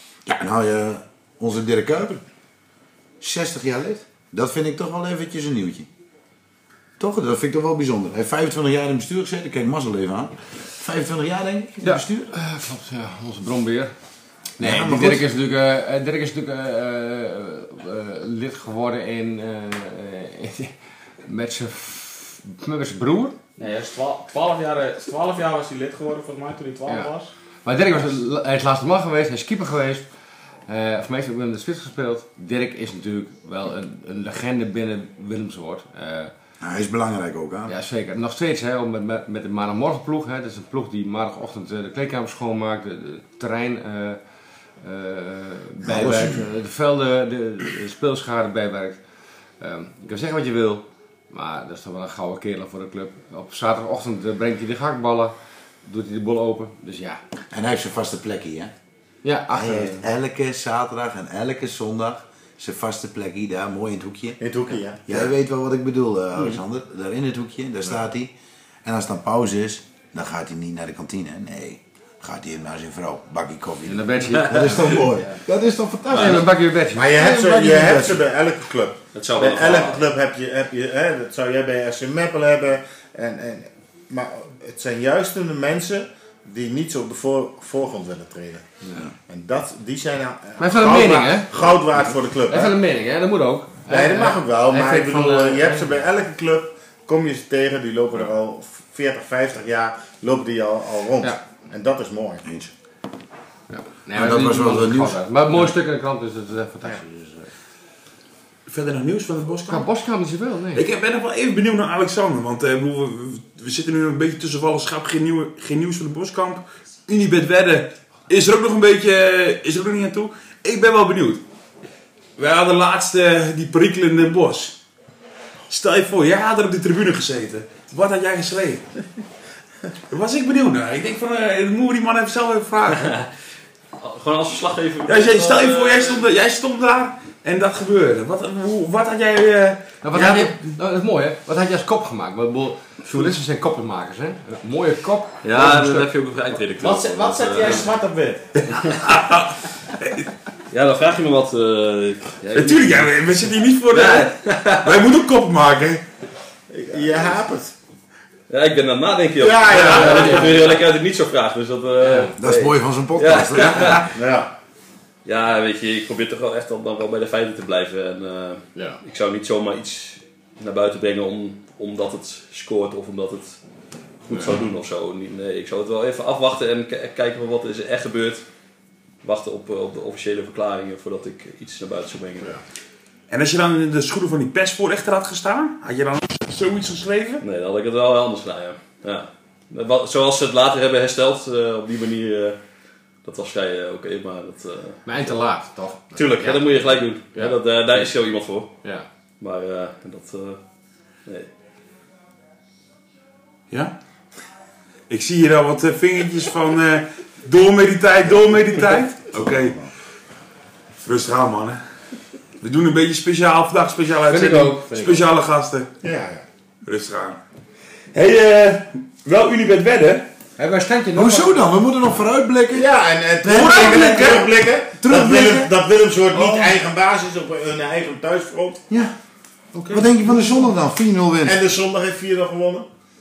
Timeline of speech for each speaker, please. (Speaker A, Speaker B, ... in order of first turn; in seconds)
Speaker A: 0.2-2.2, 3.2-5.9, 7.0-12.3, 14.6-15.3, 36.6-37.7, 45.8-46.4, 57.5-58.7, 59.5-64.4, 65.1-68.3, 68.8-76.5, 77.1-78.2, 102.4-102.7, 104.1-105.2, 162.4-164.1, 221.1-222.9, 223.4-224.4, 225.0-225.7, 229.9-231.6
Speaker B: 11.8-13.9, 14.6-20.7, 21.2-23.4, 27.6-30.1, 30.7-36.3, 37.7-44.2, 44.8-49.0, 49.6-55.3, 55.8-57.2, 59.2-60.0, 73.8-75.1, 76.1-77.2, 90.6-91.5, 92.5-95.9, 103.7-107.5, 109.7-110.8, 140.0-146.1, 159.8-160.5, 162.0-162.3, 195.1-197.6, 214.3-215.2, 220.6-221.7
Speaker C: 23.6-27.3, 146.8-148.5
Speaker D: 64.4-65.3, 76.9-88.7, 89.3-92.8, 93.9-102.4, 156.7-157.7, 159.4-160.8, 164.1-164.5, 216.0-216.4, 222.7-228.8, 231.4-232.9
Speaker E: 76.1-76.4, 79.1-80.1, 133.0-133.3, 134.0-136.2, 145.4-147.9, 148.8-149.0, 150.7-153.1, 153.9-155.0, 158.5-164.1, 165.2-173.6, 174.2-178.4, 179.2-182.6, 187.4-192.6, 193.2-195.3, 196.1-198.7, 199.4-200.6
Speaker F: 108.7-109.9, 110.7-121.4, 122.4-124.8, 125.7-128.8, 130.1-133.2, 135.1-140.4, 148.6-150.3, 152.5-156.0, 159.7-160.3, 183.3-187.4, 205.1-209.8, 211.0-211.8, 212.6-215.9, 216.8-217.4, 218.1-220.3, 223.4-224.5, 225.0-225.6, 229.7-230.2